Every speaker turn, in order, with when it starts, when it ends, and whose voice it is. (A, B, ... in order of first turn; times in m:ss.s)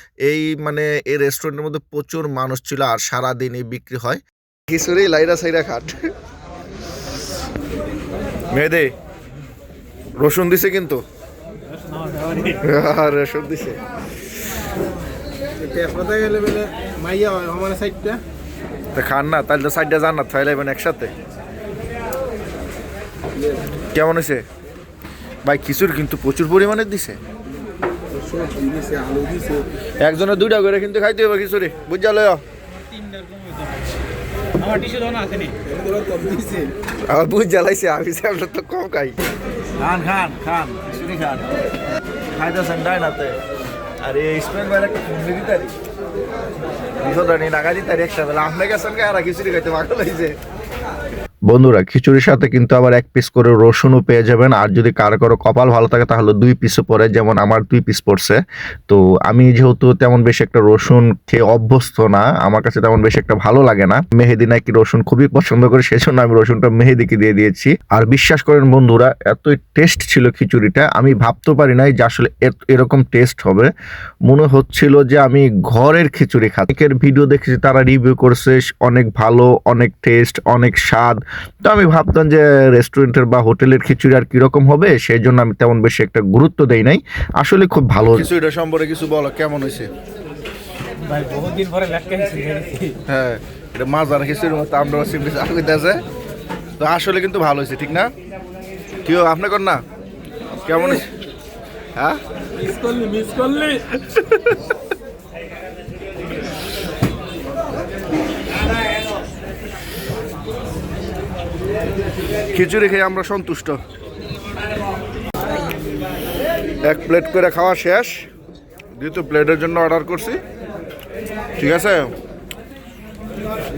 0:00.2-0:06.0 A
0:08.5-0:08.9 A
0:10.2-0:11.0 A
0:11.8-0:12.6 B
0:12.6-0:13.8 A
0:15.6-0:18.2 C
0:18.9-0:21.1 A
0:23.4-0:23.7 C
0:23.9-0:24.4 A
0:25.4-0:27.2 A
0:28.1-0:29.7 C
0:30.0-0:32.4 A
0:32.9-0:33.7 B
0:34.6-0:35.6 B
0:35.6-0:36.7 C
0:37.1-0:39.2 A
0:39.8-0:41.5 A
0:42.3-0:43.4 A
0:44.0-0:45.8 A
0:47.0-0:50.4 A
0:51.5-1:13.7 A
1:14.3-1:29.9 A
1:31.0-1:33.0 B
1:33.1-1:36.0 A
1:36.8-1:38.1 A
1:39.0-1:39.8 A
1:40.6-1:41.1 A
1:42.5-1:43.9 C
1:44.0-1:44.6 A
1:52.5-1:53.8 A
1:56.8-1:58.2 A
1:59.0-2:00.4 A
2:01.6-2:02.1 A